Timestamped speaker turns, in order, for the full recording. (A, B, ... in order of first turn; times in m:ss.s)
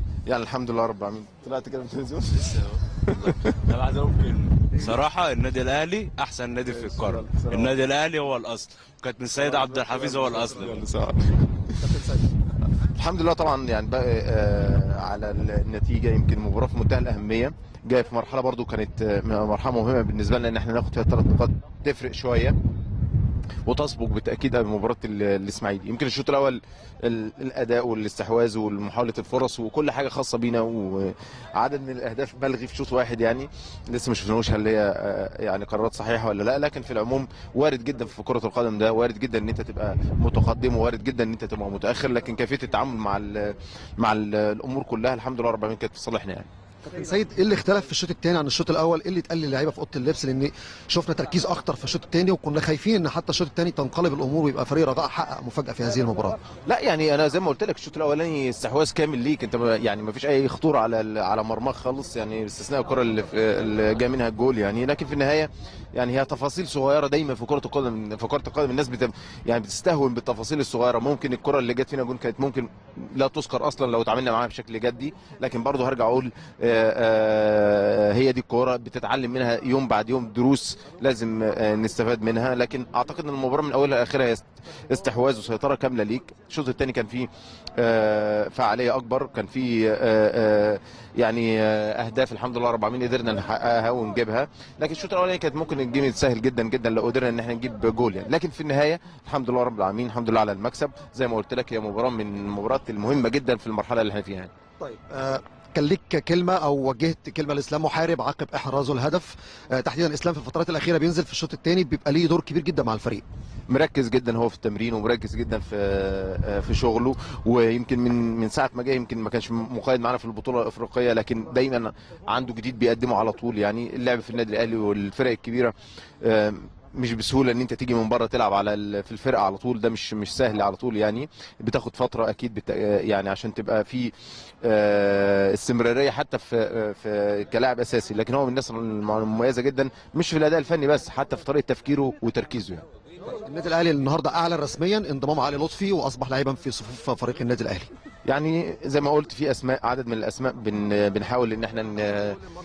0:00.3-0:03.6 A
0:02.4-0:10.8 B
0:06.7-0:07.7 A
0:09.5-0:11.8 A
0:13.0-0:22.6 A
0:23.7-0:46.5 A
0:46.8-0:56.4 C
0:56.7-1:44.5 A
1:44.8-1:53.2 C
1:53.7-2:14.1 A
2:14.6-2:22.8 A
2:23.4-2:27.9 C
2:28.3-2:32.4 A